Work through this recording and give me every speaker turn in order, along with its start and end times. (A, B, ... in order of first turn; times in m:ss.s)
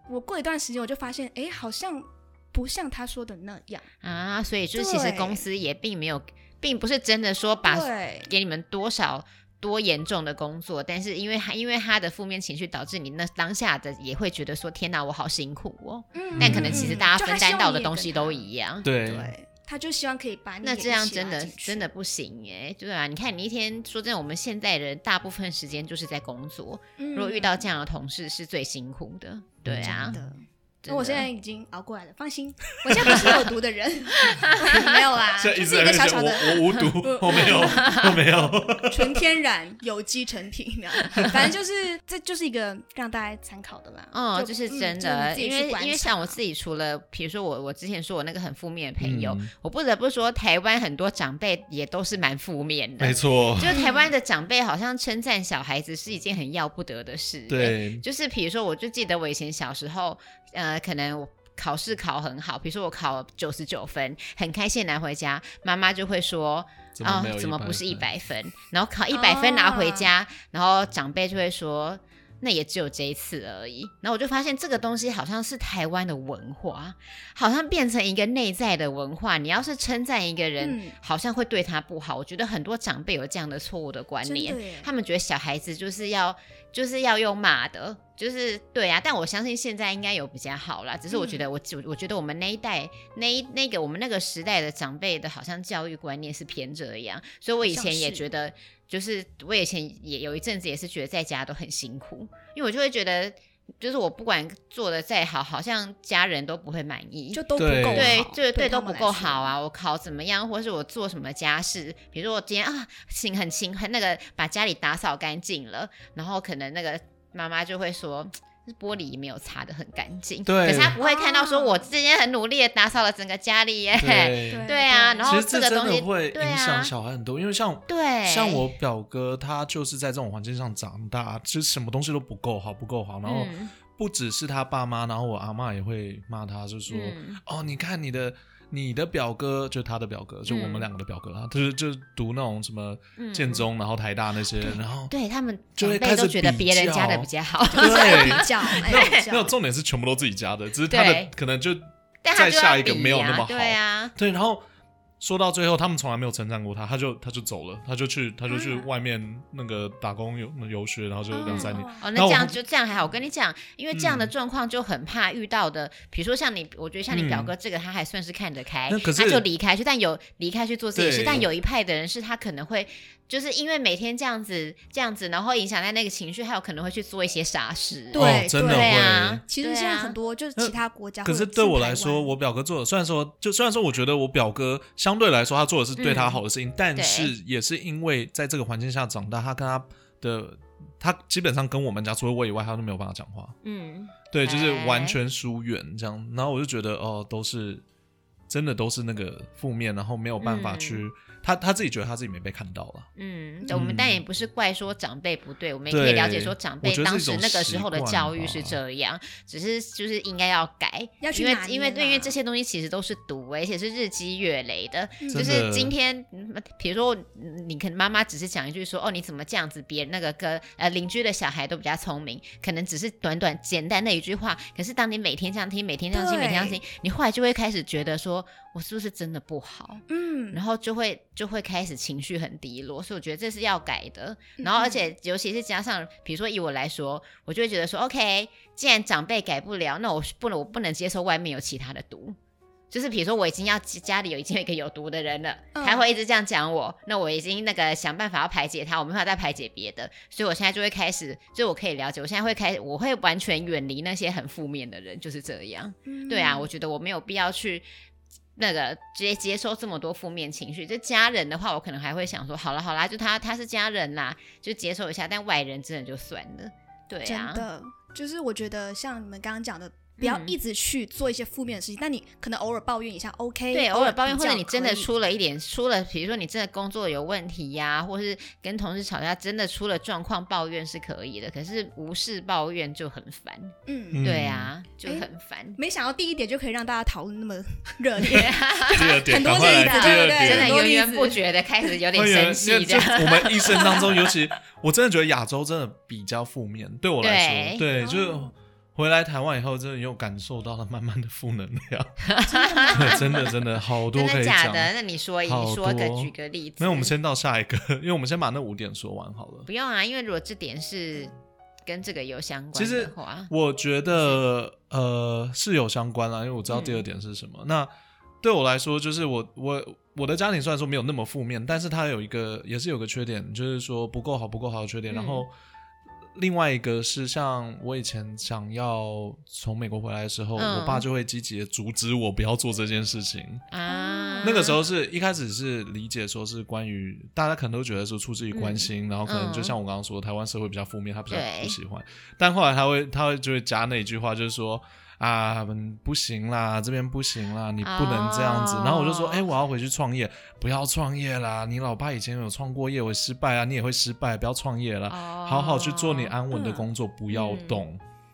0:00.1-0:03.9 A
0:04.0-0:18.9 B
0:04.8-0:05.4 A
0:07.6-0:08.3 A
0:16.1-0:21.9 A
0:16.4-0:17.0 C
0:18.8-0:19.3 C
0:20.6-0:30.2 B
0:27.0-0:27.6 A
0:29.6-0:30.2 C
0:29.8-0:46.4 A
0:30.8-0:31.3 B
0:32.9-0:33.4 C
0:34.2-0:34.9 B
0:35.4-0:39.2 C
0:37.3-0:38.2 B
0:44.1-2:06.9 B
0:49.0-0:49.5 C
0:53.0-0:53.8 C
0:53.7-0:54.1 A
0:57.5-0:58.0 C
1:06.9-1:08.1 C
1:09.1-1:10.1 A
1:20.6-1:21.0 A
1:24.2-1:24.9 A
1:31.1-1:31.4 A
1:37.6-1:38.2 A
1:47.3-1:49.5 A
1:47.6-1:48.2 C
2:00.5-2:01.0 C
2:01.0-2:01.9 A
2:04.0-2:04.7 C
2:04.5-2:05.3 A
2:05.2-2:25.1 C
2:07.9-2:08.7 B
2:13.2-2:13.7 B
2:16.9-2:17.4 B
2:20.5-2:20.9 B
2:23.2-2:23.7 B
2:25.1-2:29.2 B
2:25.8-2:31.8 C
2:27.7-2:29.5 A
2:30.9-2:31.3 B
2:32.2-2:34.1 B
2:32.3-2:34.6 C
2:35.2-2:42.6 C
2:38.5-2:38.9 A
2:41.3-2:42.0 A
2:41.5-3:00.2 B
2:43.9-2:44.3 C
2:47.1-2:47.5 C
2:48.9-2:49.4 C
2:51.0-2:51.5 C
2:58.1-3:02.3 A
2:58.2-2:59.4 C
3:00.6-3:13.6 C
3:06.0-3:06.4 B
3:07.0-3:07.3 B
3:13.6-3:15.2 B
3:14.3-3:17.8 C
3:18.5-3:23.1 C
3:20.4-3:21.0 B
3:23.2-4:02.4 B
3:23.6-3:23.9 A
3:23.7-3:24.2 C
3:25.9-3:28.8 C
3:31.2-3:32.4 A
3:35.2-3:35.6 A
3:35.3-3:35.9 C
3:46.1-3:46.8 A
3:50.1-3:50.6 A
3:54.6-3:55.1 A
4:02.9-4:17.9 B
4:05.8-4:06.1 A
4:16.1-4:16.7 A
4:18.6-4:27.6 B
4:27.2-4:35.1 A
4:30.2-4:30.6 B
4:33.7-4:45.8 B
4:43.9-4:44.3 A
4:44.1-4:44.7 C
4:45.0-4:51.9 A
4:48.2-4:54.1 B
4:48.9-4:50.8 C
4:52.1-5:02.2 C
4:53.8-4:54.1 A
4:57.2-4:57.9 B
4:58.0-4:58.5 A
5:02.2-5:03.5 B
5:02.5-5:03.5 A
5:03.0-5:04.9 C
5:04.1-5:07.1 B
5:05.5-5:09.7 C
5:09.7-5:11.3 B
5:11.9-5:13.5 B
5:12.8-5:17.9 C
5:16.7-5:17.0 B
5:18.4-5:25.5 C
5:25.1-5:25.4 B
5:26.4-5:33.6 C
5:30.6-5:31.0 B
5:33.7-5:34.8 B
5:33.9-5:34.7 A
5:34.4-5:58.0 C
5:38.5-5:39.8 B
5:41.3-5:41.8 B
5:47.8-5:49.5 B
5:55.1-5:56.3 B
5:56.5-5:56.9 A
5:57.3-5:57.8 B